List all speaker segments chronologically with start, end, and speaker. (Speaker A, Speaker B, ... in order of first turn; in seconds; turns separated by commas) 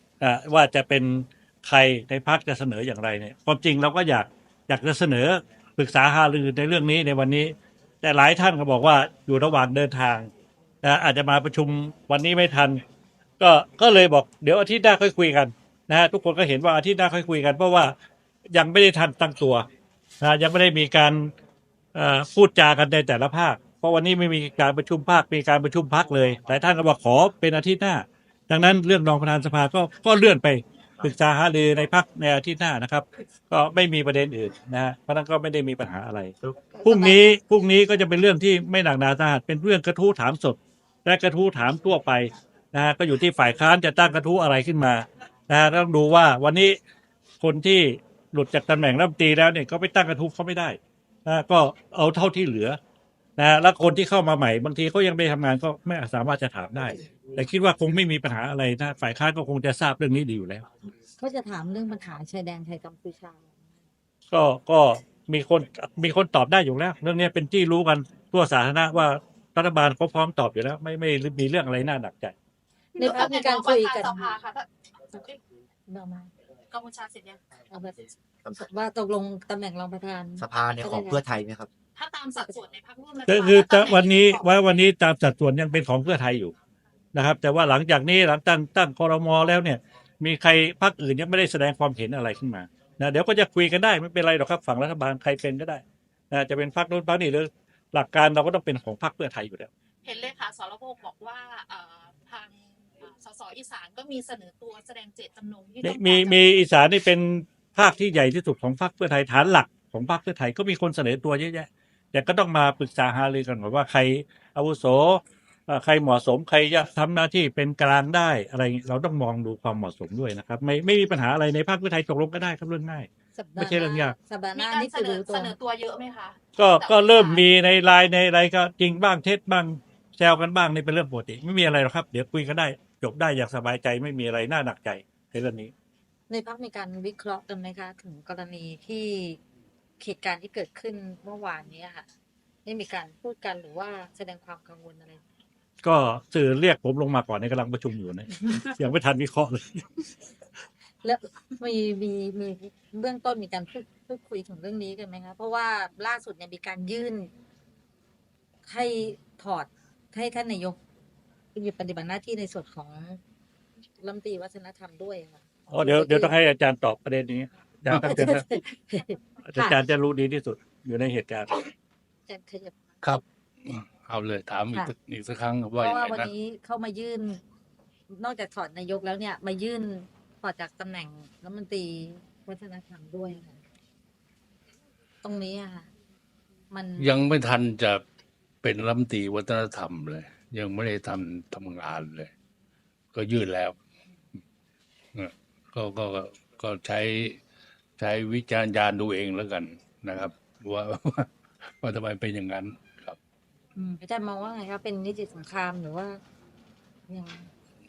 Speaker A: 0.2-10.3, Speaker A: 10.8-12.8, Speaker A: 13.4-17.9, Speaker A: 18.5-19.6, Speaker A: 20.2-21.3, Speaker A: 21.9-46.8, Speaker B: 36.4-37.2, Speaker A: 47.4-52.8, Speaker A: 53.4-60.7, Speaker C: 61.2-63.8, Speaker A: 64.3-72.3, Speaker D: 73.0-75.4, Speaker C: 73.0-74.3, Speaker C: 75.9-76.3, Speaker D: 76.7-77.4, Speaker C: 77.7-78.0, Speaker C: 78.5-81.2, Speaker B: 80.4-81.7, Speaker D: 81.9-84.5, Speaker A: 83.3-86.5, Speaker A: 87.1-99.7, Speaker D: 100.0-106.6, Speaker A: 105.8-124.1, Speaker C: 123.3-125.5, Speaker D: 124.5-127.4, Speaker A: 126.5-135.7, Speaker C: 136.3-139.4, Speaker C: 140.0-142.1, Speaker C: 142.6-145.2, Speaker A: 145.8-150.0, Speaker C: 151.0-157.3, Speaker C: 158.7-160.8, Speaker C: 161.5-163.2, Speaker C: 164.0-166.3, Speaker A: 165.7-168.5, Speaker C: 167.9-169.8, Speaker A: 169.4-171.7, Speaker C: 172.3-172.7, Speaker E: 173.0-176.3, Speaker C: 175.8-177.4, Speaker C: 178.1-183.6, Speaker C: 185.2-185.9, Speaker C: 186.7-187.2, Speaker E: 187.0-188.0, Speaker E: 188.6-192.3, Speaker E: 193.1-193.8, Speaker E: 195.1-197.4, Speaker E: 198.0-203.2, Speaker C: 203.8-206.2, Speaker C: 207.1-207.5